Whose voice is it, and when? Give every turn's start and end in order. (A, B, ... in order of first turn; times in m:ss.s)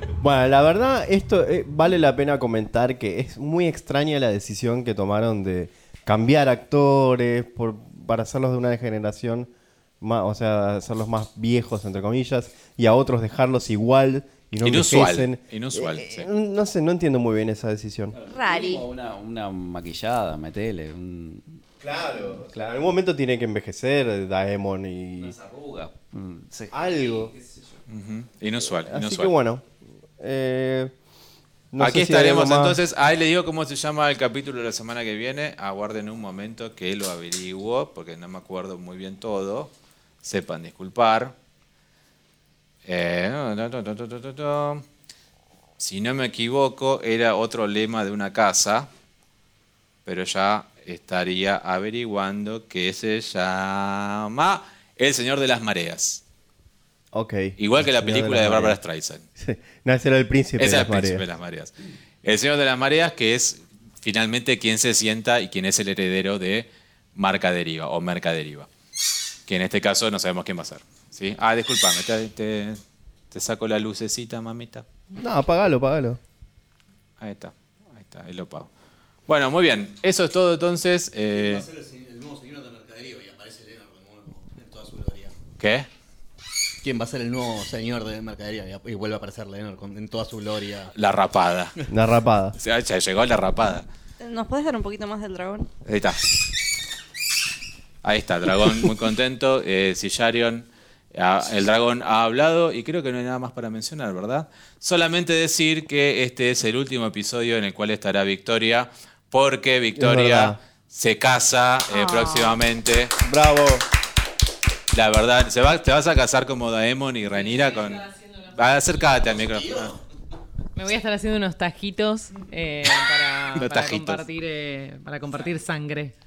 0:00.2-0:18.1 A
0:14.6-0:16.3 B
0:18.1-0:21.6 C
0:18.3-0:18.9 D
0:21.8-0:25.4 A
0:22.2-0:22.9 C
0:25.2-0:27.8 C
0:26.7-0:27.3 A
0:27.9-0:29.3 B
0:28.8-0:29.6 A
0:30.2-0:30.9 A
0:31.7-0:32.8 A
0:31.8-0:39.7 B
0:40.2-0:41.3 B
0:42.8-0:44.8 B
0:45.8-0:48.9 B
0:50.0-0:56.2 B
0:57.1-0:58.8 A
0:57.6-0:59.2 B
0:59.4-1:01.2 A
1:00.6-1:01.7 B
1:02.2-1:08.7 B
1:09.5-1:12.8 B
1:13.3-1:14.8 B
1:15.1-1:16.2 A
1:17.2-1:18.7 B
1:19.3-1:21.6 B
1:21.3-1:25.3 E
1:25.6-1:25.9 B
1:26.8-1:30.9 E
1:30.9-1:31.7 B
1:31.9-1:32.6 A
1:32.6-1:33.9 B
1:34.2-1:35.7 D
1:35.8-1:36.2 B
1:38.0-1:53.1 B
1:49.9-1:50.6 A
1:51.9-1:52.6 D
1:53.2-1:53.8 A
1:54.9-2:00.0 B
1:59.3-1:59.9 E
2:00.7-2:06.1 F
2:03.6-2:04.2 B